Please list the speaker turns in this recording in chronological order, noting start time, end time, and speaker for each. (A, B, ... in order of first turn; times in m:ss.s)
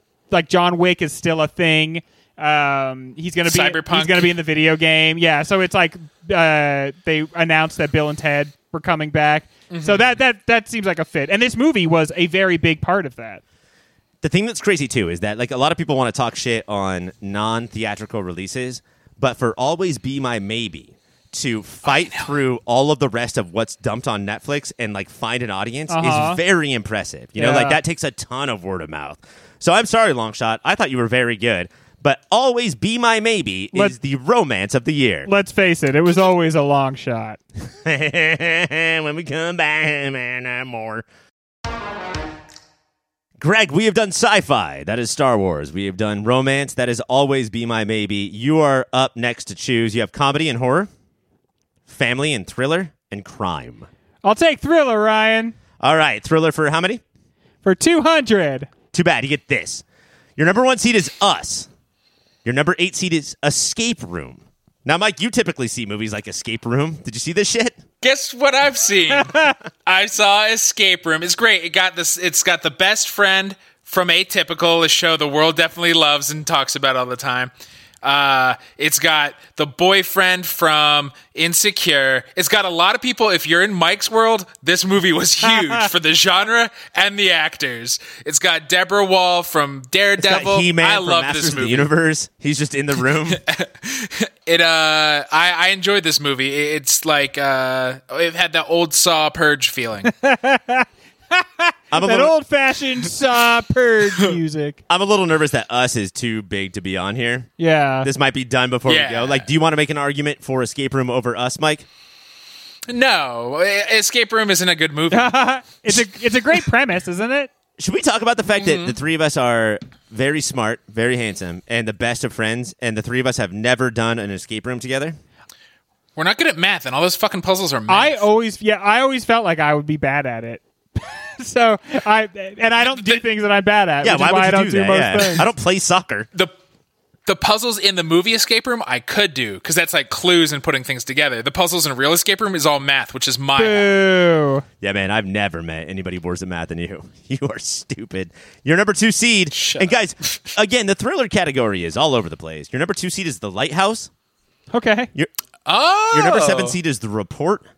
0:00.3-0:13.4 A
0:03.4-0:04.3 B
0:09.7-0:10.1 B
0:14.2-0:35.3 C
0:21.9-0:22.3 B
0:25.9-0:26.4 A
0:27.4-0:27.8 A
0:35.2-0:37.4 A
0:37.8-0:41.0 C
0:43.4-0:50.9 C
0:51.9-0:53.9 C
0:54.2-0:55.5 A
0:55.8-0:57.0 C
0:57.6-0:58.7 A
0:58.9-0:59.8 C
1:00.4-1:01.7 C
1:02.4-1:07.8 C
1:08.0-1:17.5 B
1:09.2-1:09.5 A
1:18.0-1:31.9 B
1:25.4-1:25.9 A
1:30.2-1:33.4 C
1:33.3-1:40.1 B
1:40.0-1:44.8 A
1:41.9-1:42.3 C
1:44.9-1:47.5 C
1:47.6-1:48.1 A
1:48.0-1:51.8 C
1:48.9-1:49.5 B
1:52.9-1:55.4 B
1:55.1-1:57.5 A
1:57.8-2:05.2 C
1:58.6-1:59.0 B
2:06.2-2:08.2 B
2:07.9-2:15.5 A
2:12.9-2:13.2 B
2:14.0-2:16.3 C
2:17.2-2:24.0 B
2:23.6-2:24.6 A
2:24.8-2:34.1 C
2:29.5-2:30.0 B
2:34.7-2:35.1 A
2:35.7-2:36.8 B
2:36.1-2:37.6 C